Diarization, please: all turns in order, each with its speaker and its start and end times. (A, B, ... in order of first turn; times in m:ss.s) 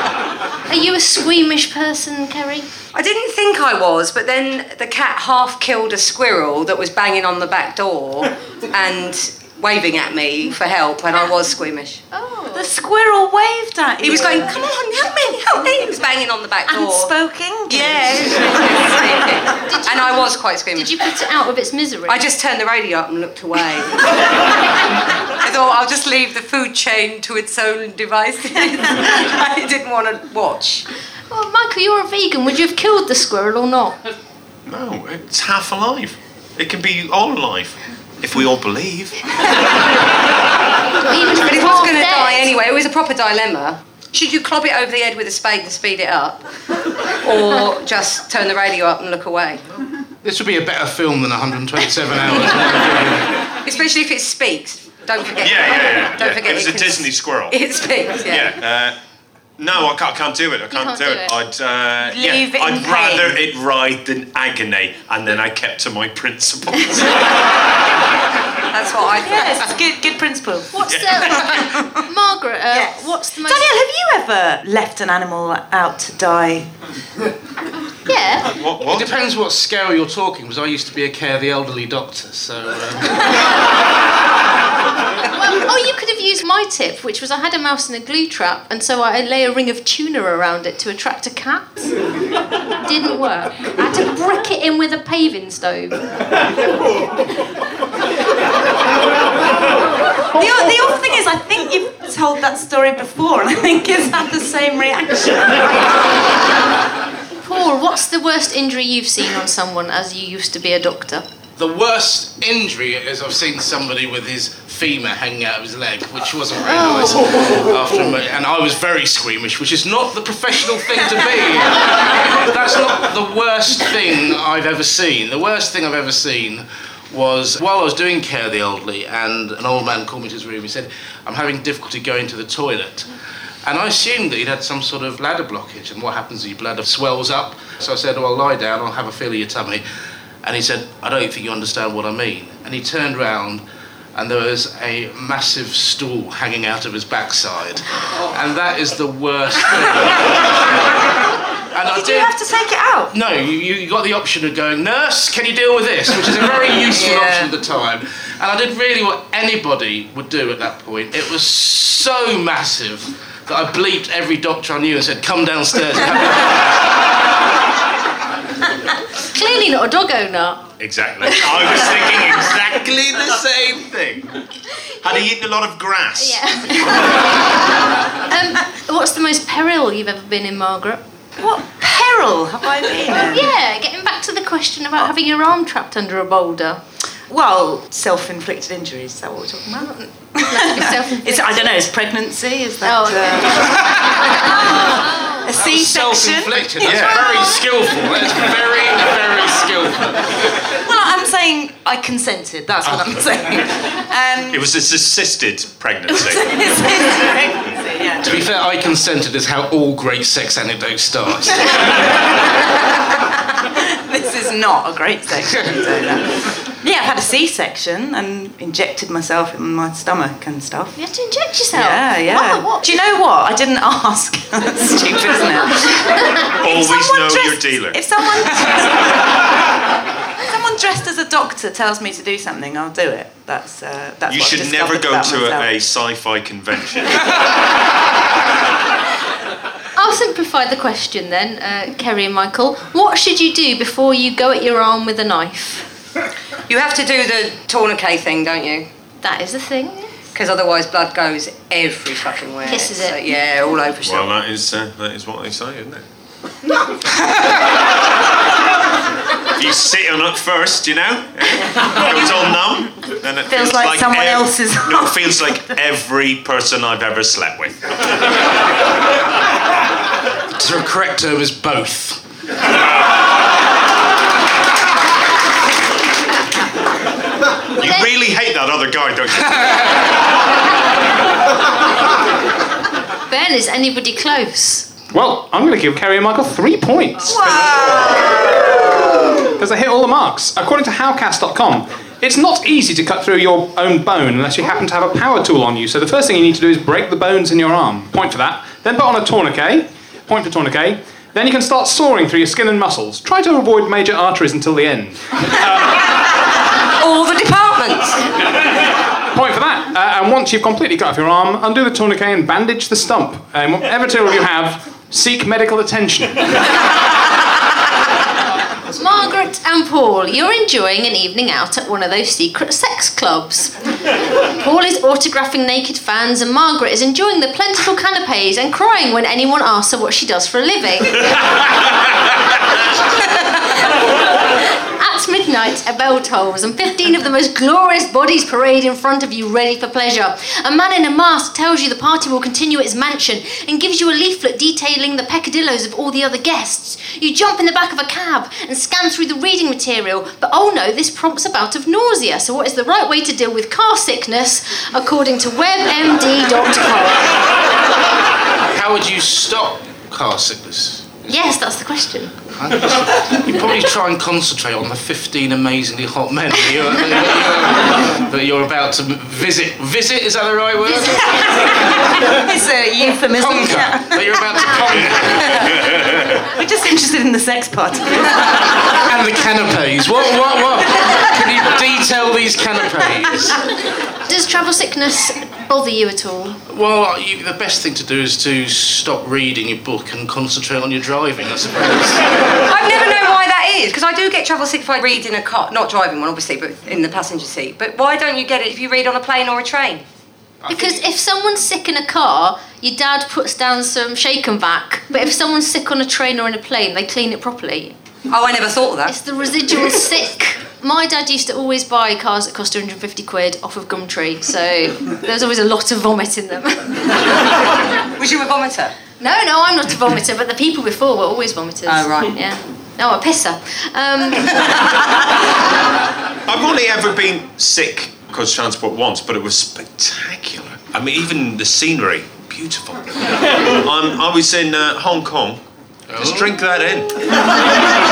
0:00.7-0:02.7 A
0:02.9-0:12.0 B
0:12.1-0:12.7 A
0:12.5-0:14.7 C
0:14.0-0:17.1 B
0:16.7-0:18.9 C
0:17.7-0:21.0 B
0:19.7-0:22.2 A
0:22.1-0:24.1 B
0:25.4-0:30.9 B
0:31.3-0:34.0 A
0:34.7-0:39.3 D
0:41.0-0:42.5 A
0:41.4-0:46.4 B
0:47.2-0:49.6 B
0:50.2-0:53.3 E
0:53.6-0:58.6 B
0:55.4-0:57.6 D
0:58.3-0:59.0 D
0:59.6-1:07.2 D
1:00.7-1:01.3 A
1:02.0-1:03.4 C
1:08.7-1:09.6 B
1:09.2-1:10.9 C
1:10.7-1:13.7 A
1:10.9-1:11.4 D
1:11.5-1:11.8 C
1:12.7-1:16.7 C
1:18.1-1:18.5 A
1:18.5-1:19.1 D
1:18.8-1:23.4 E
1:25.3-1:32.0 A
1:32.8-1:36.0 A
1:40.3-1:45.9 C
1:47.4-1:51.3 A
1:51.6-2:13.1 E
2:13.6-2:19.8 E
2:20.4-2:23.6 E
2:24.2-2:30.6 E
2:31.7-2:32.3 E
2:31.9-2:33.1 B
2:33.1-2:46.9 E
2:36.9-2:37.5 B
2:49.3-2:50.6 A
2:50.8-2:54.3 D
2:55.0-2:56.4 D
2:56.2-2:57.1 A
2:58.2-3:01.0 A
3:01.4-3:03.5 C
3:03.3-3:06.8 A
3:07.3-3:17.6 C
3:10.4-3:11.7 A
3:12.8-3:13.5 A
3:14.7-3:15.3 A
3:15.5-3:20.3 E
3:16.8-3:17.2 D
3:20.8-3:24.7 C
3:24.5-3:26.6 D
3:26.1-3:28.4 C
3:28.2-3:31.9 E
3:33.6-3:41.0 C
3:41.0-3:42.8 A
3:41.7-3:49.3 C
3:46.5-3:48.1 D
3:50.4-3:55.7 C
3:54.3-3:57.3 D
4:00.0-4:05.9 A
4:06.7-4:08.9 B
4:09.2-4:10.2 A
4:10.3-4:14.3 B
4:12.7-4:13.2 A
4:14.0-4:16.0 D
4:19.6-4:27.8 D
4:23.5-4:25.6 C
4:30.6-4:32.2 E
4:32.7-4:33.2 D
4:37.8-4:39.9 D
4:37.8-4:38.1 A
4:43.3-4:44.9 A
4:45.1-4:47.9 F
4:47.5-4:48.5 C
4:49.3-5:06.0 F
5:07.0-5:08.2 B
5:09.3-5:16.5 F
5:19.0-5:23.7 A
5:24.6-5:31.4 A
5:35.0-5:57.4 A
5:58.7-6:01.2 E
6:01.3-6:02.4 A
6:02.6-6:11.7 E
6:12.2-6:14.8 C
6:13.4-6:15.8 E
6:15.4-6:16.5 D
6:16.5-6:18.4 C
6:18.9-6:23.6 E
6:24.3-6:26.6 A
6:26.7-6:32.2 E
6:32.7-6:40.0 B
6:40.6-6:41.0 E
6:40.7-6:48.0 A
6:48.3-6:49.1 B
6:49.1-6:57.2 A
6:58.2-6:58.9 B
6:59.2-7:04.8 A
7:01.9-7:02.4 B
7:06.5-7:13.1 D
7:13.7-7:15.6 D
7:16.1-7:16.6 E
7:16.2-7:17.5 D